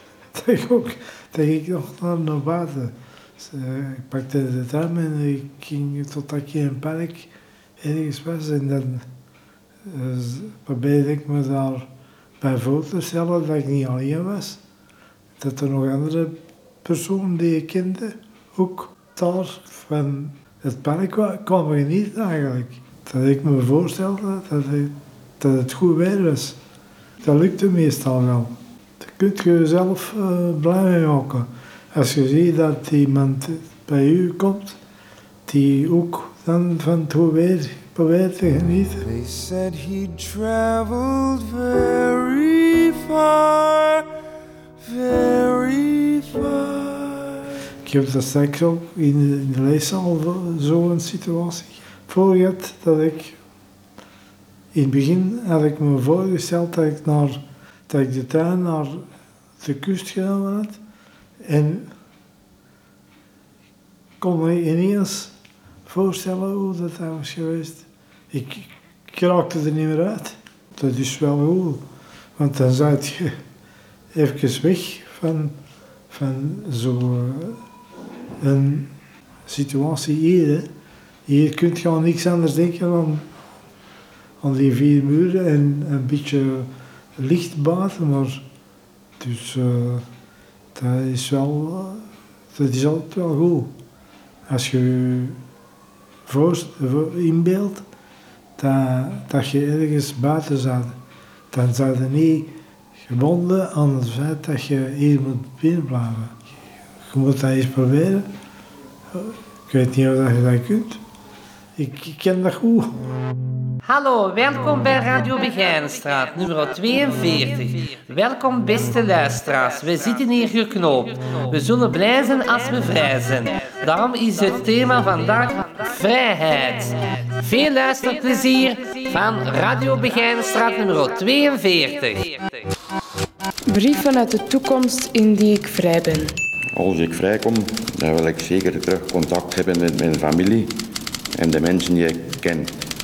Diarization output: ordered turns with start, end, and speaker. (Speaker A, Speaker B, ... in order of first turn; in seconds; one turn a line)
Speaker A: 0.3-7.3
Speaker A: 7.8-9.1
Speaker A: 9.8-11.9
Speaker A: 12.4-14.6
Speaker A: 15.4-26.6
Speaker A: 27.2-34.8
Speaker A: 35.5-39.0
Speaker B: 39.2-44.0
Speaker B: 44.9-46.9
Speaker A: 47.8-53.4
Speaker A: 54.7-59.0
Speaker A: 59.6-60.8
Speaker A: 61.4-61.9
Speaker A: 64.2-65.3
Speaker A: 65.8-71.8
Speaker A: 72.4-73.3
Speaker A: 74.1-75.5
Speaker A: 76.1-77.6
Speaker A: 78.4-78.9
Speaker A: 79.5-80.7
Speaker A: 81.3-83.3
Speaker A: 84.4-88.4
Speaker A: 89.2-90.0
Speaker A: 90.7-93.7
Speaker A: 94.5-95.4
Speaker A: 96.3-97.8
Speaker A: 98.6-101.0
Speaker A: 101.5-102.5
Speaker A: 103.1-106.3
Speaker A: 107.1-108.2
Speaker A: 109.1-111.0
Speaker A: 111.8-112.9
Speaker C: 113.8-132.6
Speaker D: 133.7-136.3
Speaker E: 136.7-140.7
Speaker E: 141.3-142.7